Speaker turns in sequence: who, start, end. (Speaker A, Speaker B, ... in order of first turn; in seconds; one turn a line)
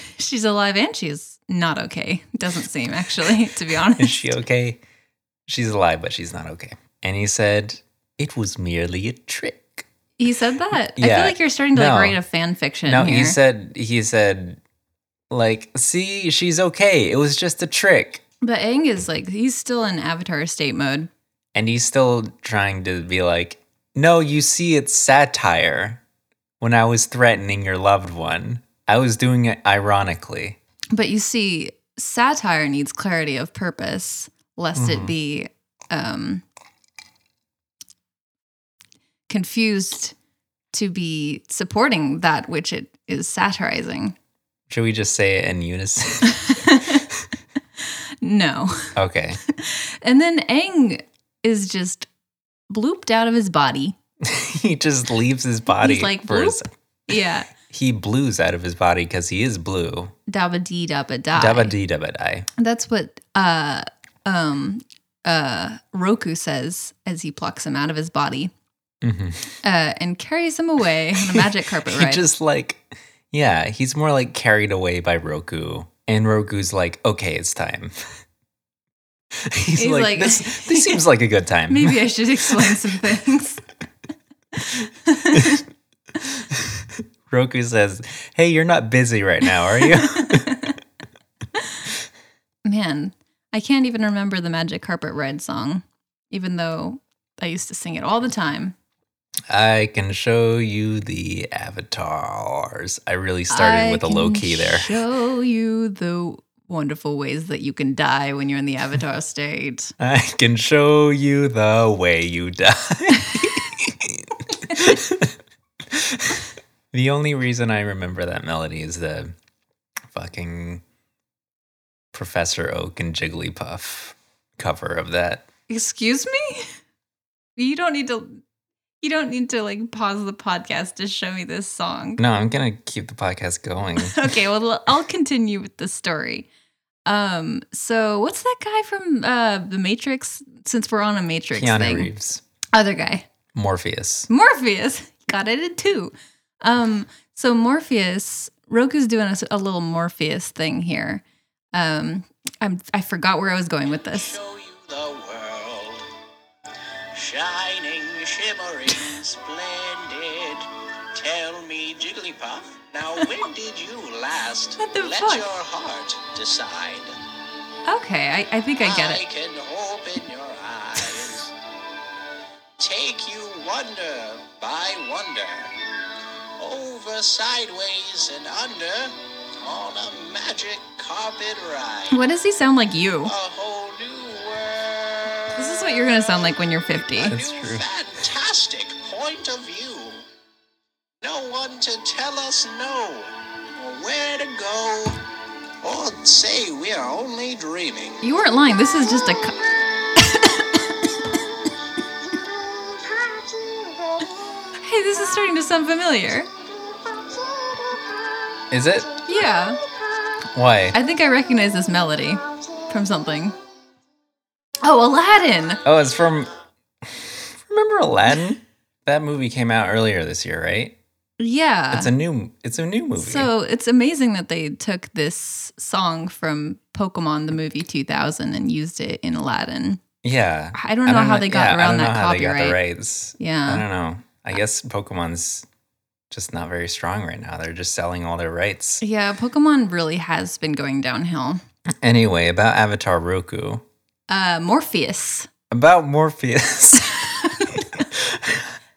Speaker A: 0.1-4.4
Speaker B: 4.0-4.8
Speaker B: 5.5-9.8
Speaker A: 10.2-13.4
Speaker B: 10.9-12.2
Speaker B: 12.8-14.6
Speaker B: 15.3-18.2
Speaker A: 18.4-21.1
Speaker B: 21.5-26.0
Speaker B: 26.6-30.6
Speaker A: 30.9-36.4
Speaker B: 34.7-35.1
Speaker A: 39.3-40.1
Speaker A: 40.7-44.1
Speaker B: 44.7-46.6
Speaker A: 46.3-47.0
Speaker A: 48.2-49.0
Speaker B: 48.9-49.4
Speaker A: 49.5-52.1
Speaker A: 52.7-53.9
Speaker B: 54.2-56.7
Speaker A: 55.8-57.5
Speaker B: 57.5-60.1
Speaker A: 60.3-61.7
Speaker B: 61.3-62.5
Speaker A: 62.6-68.5
Speaker B: 69.0-69.5
Speaker A: 69.6-72.2
Speaker B: 71.2-78.1
Speaker B: 79.3-82.0
Speaker A: 79.8-81.0
Speaker A: 81.7-83.6
Speaker A: 84.5-85.6
Speaker B: 86.2-90.6
Speaker A: 90.0-90.8
Speaker A: 92.6-98.7
Speaker B: 99.5-104.9
Speaker A: 103.5-109.9
Speaker B: 110.0-115.3
Speaker B: 115.9-119.3
Speaker B: 120.1-120.8
Speaker B: 122.1-125.5
Speaker A: 125.7-126.7
Speaker A: 127.6-128.4
Speaker A: 129.0-132.2
Speaker B: 132.2-134.3
Speaker A: 134.0-136.5
Speaker A: 137.1-142.1
Speaker B: 141.5-142.4
Speaker A: 142.7-143.3
Speaker B: 143.5-144.3
Speaker A: 144.3-151.2
Speaker A: 151.7-154.4
Speaker C: 153.9-156.0
Speaker C: 157.1-167.1
Speaker A: 164.8-165.6
Speaker A: 167.9-169.2
Speaker C: 168.8-171.5
Speaker C: 172.8-175.7
Speaker C: 176.6-182.2
Speaker A: 182.1-183.3
Speaker C: 183.2-185.5
Speaker A: 185.5-187.3
Speaker C: 187.1-190.2
Speaker B: 187.2-187.9
Speaker C: 191.2-195.2
Speaker C: 195.8-198.2
Speaker A: 198.2-199.6
Speaker A: 200.1-201.4
Speaker A: 204.8-206.5
Speaker B: 208.7-209.1
Speaker A: 209.2-209.8
Speaker B: 210.5-210.9
Speaker A: 210.9-213.5
Speaker A: 214.8-215.8
Speaker B: 215.8-216.5
Speaker B: 217.0-221.0
Speaker A: 221.4-222.1
Speaker B: 221.9-223.5
Speaker A: 223.2-230.0
Speaker B: 230.2-235.7
Speaker A: 230.7-232.8
Speaker A: 233.4-233.8
Speaker B: 236.3-239.0
Speaker A: 239.0-241.6
Speaker B: 242.0-243.8
Speaker A: 244.3-245.5
Speaker B: 245.7-248.7
Speaker A: 247.2-248.1